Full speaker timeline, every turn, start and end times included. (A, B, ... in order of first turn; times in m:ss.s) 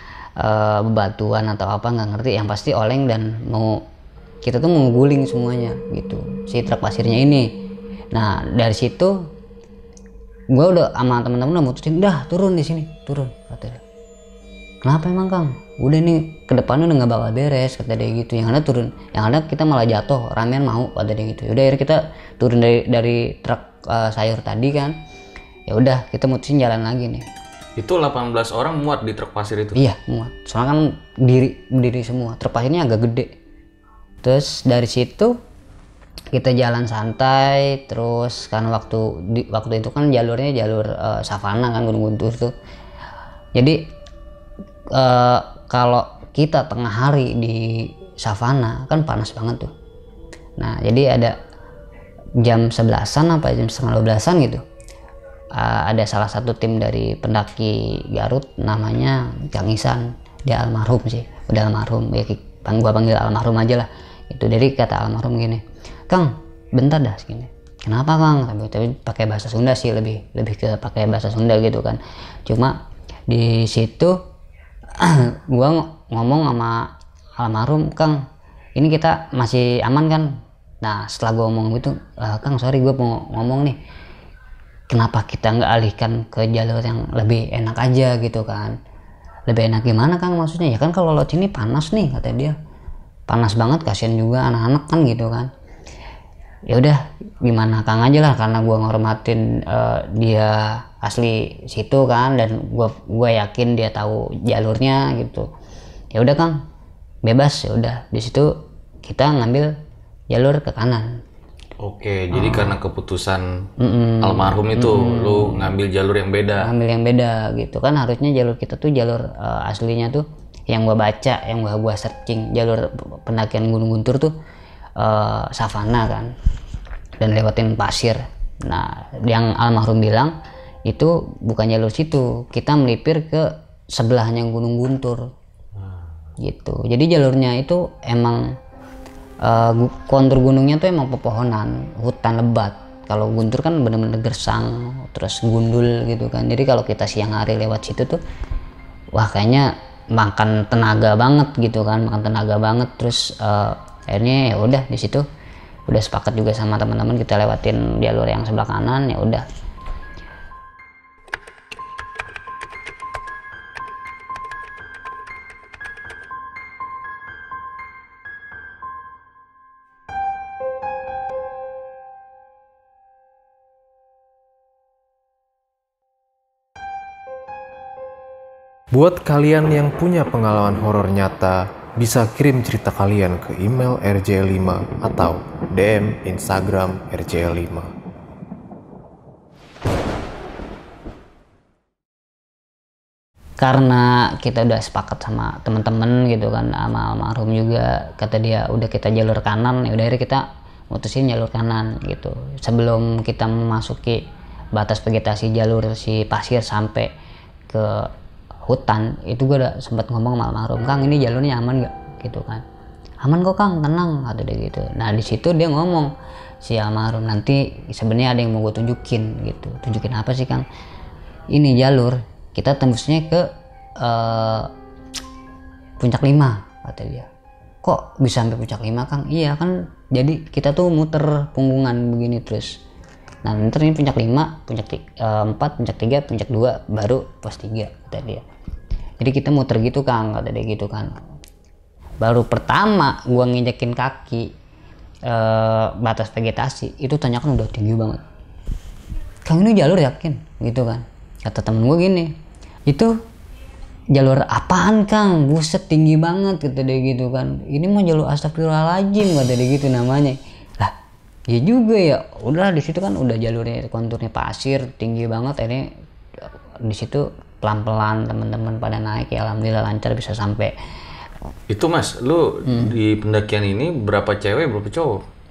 0:00.4-0:03.8 A
0:04.4-0:07.5 A
0:08.1-0:09.2 A
0:10.5-0:13.8 A
0:14.8-0:24.9 A
0:25.7-0:27.2 A
0:27.8-0:29.8 B
0:29.7-0:33.3 A
0:34.2-0:35.3 A
0:36.3-0:42.5 A
0:43.5-0:43.8 A
0:44.9-0:49.7 A
0:50.6-0:51.3 A
0:52.4-0:54.6 A
0:55.5-1:12.8 A
1:13.3-1:14.2 A
1:15.0-1:18.2 A
1:18.8-1:20.3 A
1:20.8-1:23.8 A
1:24.9-1:28.8 A
1:29.5-1:32.5 A
1:33.3-1:35.5 A
1:36.7-1:45.5 A
1:46.1-1:46.6 A
1:47.2-1:49.7 A
1:50.3-1:51.2 A
1:51.8-1:53.4 B
1:52.3-1:52.7 A
1:53.8-1:55.7 A
1:54.2-1:56.7 B
1:56.6-2:04.3 A
2:05.0-2:06.3 A
2:07.2-2:10.3 A
2:10.8-2:15.2 A
2:15.8-2:16.0 B
2:16.4-2:18.4 A
2:19.4-2:28.2 A
2:29.1-2:35.2 A
2:35.9-2:39.4 A
2:58.9-3:07.9 C
3:13.6-3:24.2 A
3:24.7-3:27.1 A
3:27.7-3:28.1 A
3:28.7-3:32.6 A
3:33.2-3:36.1 A
3:36.6-3:40.6 A
3:41.5-3:43.5 A
3:44.0-3:44.7 A
3:46.0-3:47.3 A
3:47.8-3:52.8 A
3:53.4-3:58.4 A
3:59.2-4:01.1 A
4:02.2-4:04.5 A
4:05.3-4:08.2 A
4:09.4-4:12.3 A
4:12.9-4:13.1 A
4:14.1-4:20.9 A
4:21.5-4:25.9 A
4:26.8-4:30.7 A
4:31.7-4:35.2 B